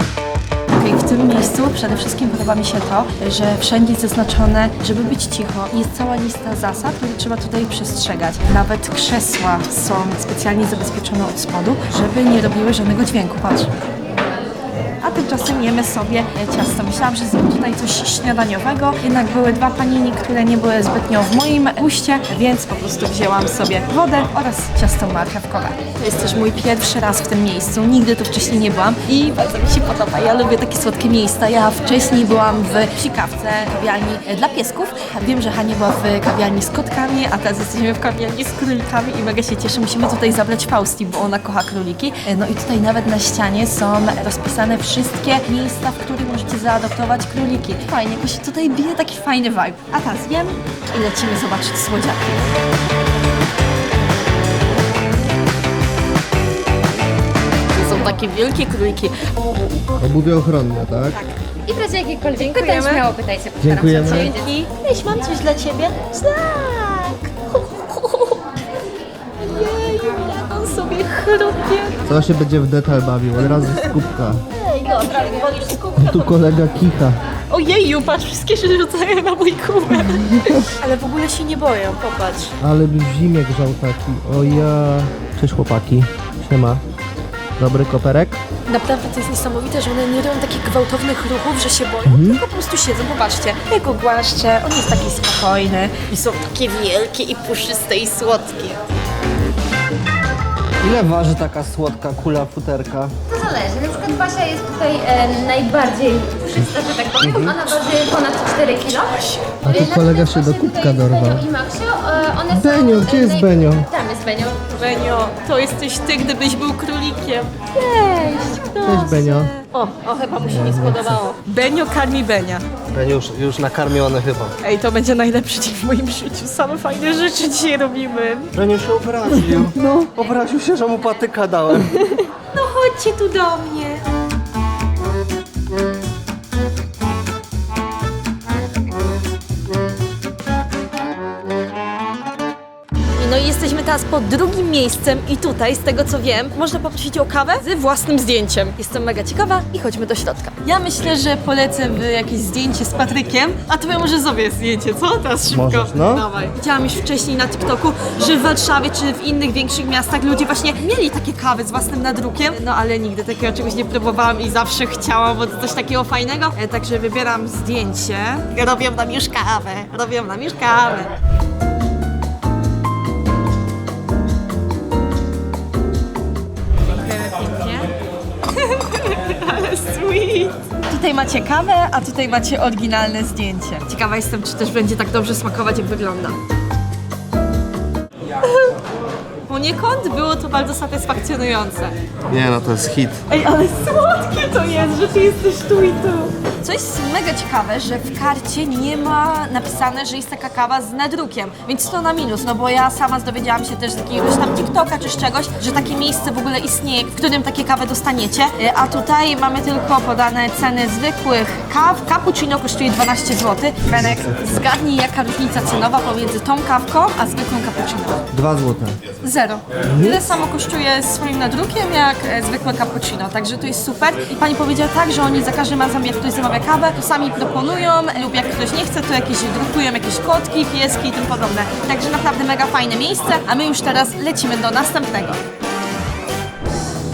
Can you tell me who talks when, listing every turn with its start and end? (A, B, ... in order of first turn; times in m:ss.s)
0:00.7-0:13.7 A
0:15.0-0:52.5 A
0:57.7-0:59.1 A
1:00.0-1:01.2 B
1:01.8-1:04.3 C
1:02.3-1:03.1 A
1:03.6-1:04.3 B
1:04.0-1:08.5 A
1:09.4-1:12.0 A
1:12.0-1:14.4 B
1:13.6-1:14.0 A
1:14.6-1:16.3 A
1:16.0-1:17.2 B
1:17.5-1:22.5 A
1:22.6-1:26.8 B
1:27.6-1:28.4 B
1:28.7-1:38.8 A
1:32.0-1:32.4 B
1:40.8-1:43.1 B
1:43.3-1:49.0 C
1:47.2-1:47.7 B
1:49.2-1:49.6 A
1:49.6-1:51.5 B
1:49.7-1:54.5 C
1:52.5-1:53.9 B
1:54.7-2:00.5 A
1:58.8-1:59.5 B
2:00.4-2:01.2 B
2:01.3-2:02.6 A
2:02.9-2:04.5 B
2:04.6-2:08.5 A
2:08.5-2:12.2 B
2:12.5-2:14.0 A
2:23.2-2:51.1 A
2:35.5-2:36.3 B
2:57.0-2:57.9 A
2:58.5-3:06.4 A
3:08.4-3:08.7 A
3:09.5-3:11.9 A
3:12.3-3:13.2 B
3:13.3-3:38.2 A
3:38.3-3:39.0 B
3:39.2-3:55.4 A
3:39.8-3:40.2 B